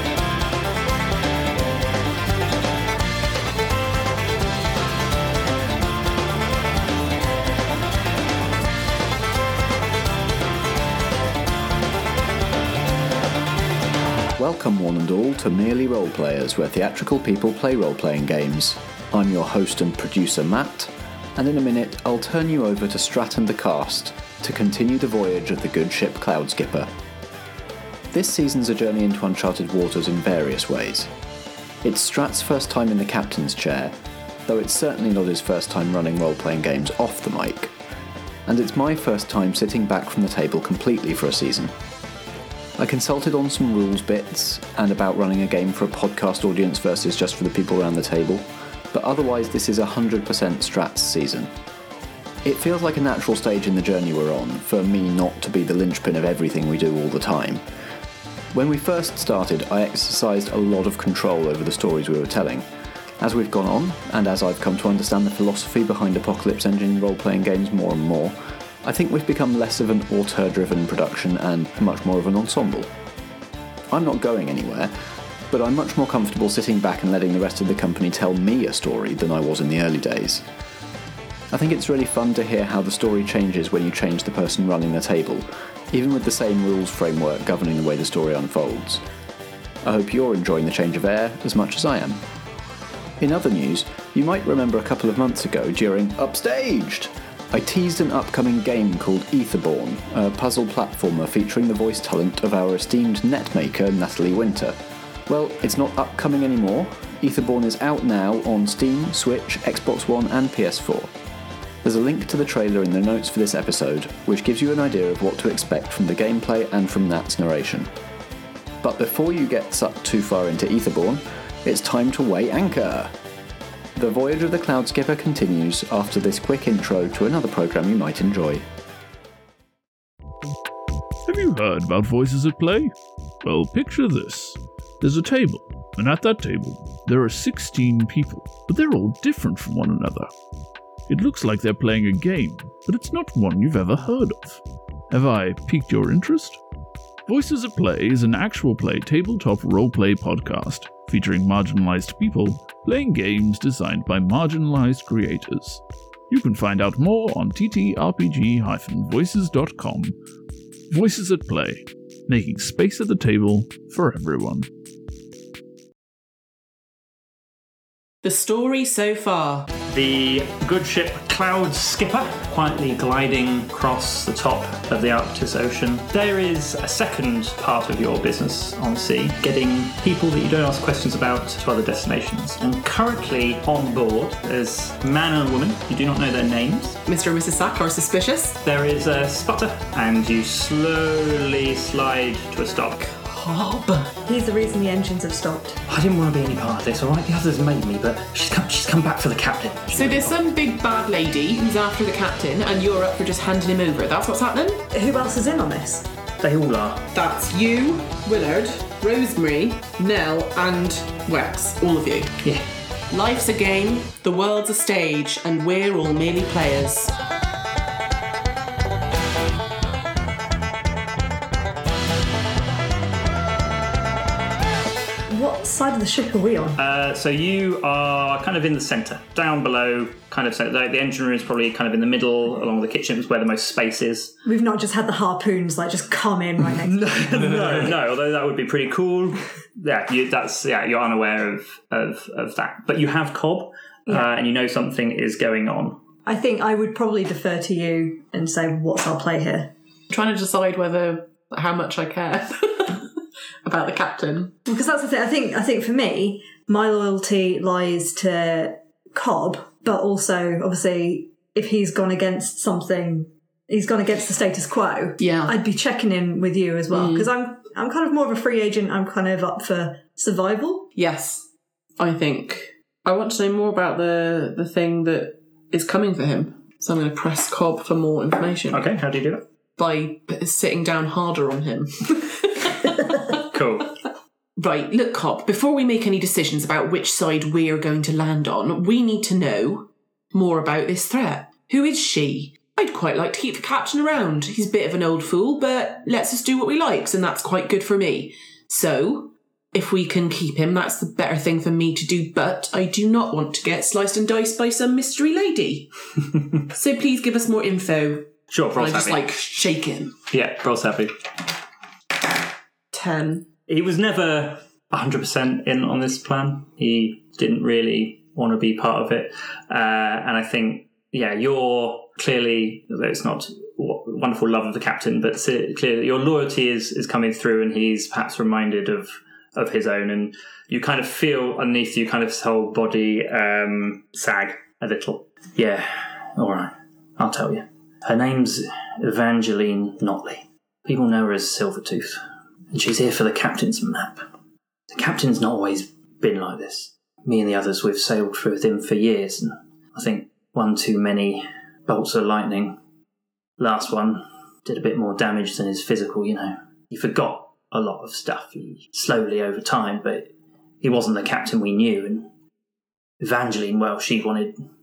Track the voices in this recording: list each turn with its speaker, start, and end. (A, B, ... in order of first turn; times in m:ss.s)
0:14.4-0:26.9 A
0:28.1-0:31.1 A
0:31.8-0:33.9 A
0:34.5-0:37.7 A
0:38.5-0:41.7 A
0:42.8-0:51.5 A
0:52.4-0:57.6 A
0:58.5-1:02.6 A
1:03.2-1:12.9 A
1:13.9-1:14.9 A
1:15.5-1:20.4 A
1:21.5-1:29.0 A
1:29.8-1:32.2 A
1:33.2-1:44.8 A
1:45.3-1:51.1 A
1:51.8-1:57.9 A
1:58.8-2:03.1 A
2:04.0-2:08.6 A
2:11.2-2:20.3 B
2:21.1-2:26.6 B
2:27.3-2:40.2 B
2:40.9-2:44.7 B
2:48.2-2:49.7 C
2:49.9-3:07.0 D
3:07.1-3:08.6 C
3:08.6-3:13.1 D
3:13.2-3:14.2 C
3:14.3-3:15.8 E
3:15.9-3:20.4 D
3:19.9-3:24.9 C
3:24.9-3:26.1 E
3:26.4-3:27.0 D
3:27.1-3:32.4 C
3:33.1-3:37.2 C
3:45.3-3:46.8 E
3:46.8-3:54.3 D
3:54.5-3:57.1 E
3:56.8-4:06.0 D
4:06.3-4:09.7 E
4:10.1-4:13.1 C
4:13.6-4:14.6 C
4:14.7-4:30.9 E
4:25.2-4:25.6 C
4:26.9-4:27.3 C
4:31.0-4:38.9 C
4:38.7-4:39.4 D
4:39.8-4:43.4 C
4:43.5-4:44.0 D
4:44.6-5:05.9 C
5:06.7-5:10.2 C
5:08.5-5:09.3 D
5:10.3-5:11.1 D
5:12.9-5:13.5 C
5:13.7-5:42.2 D
5:42.7-5:44.3 D
5:44.9-5:52.8 D
5:53.6-6:02.3 D
6:03.2-6:04.6 D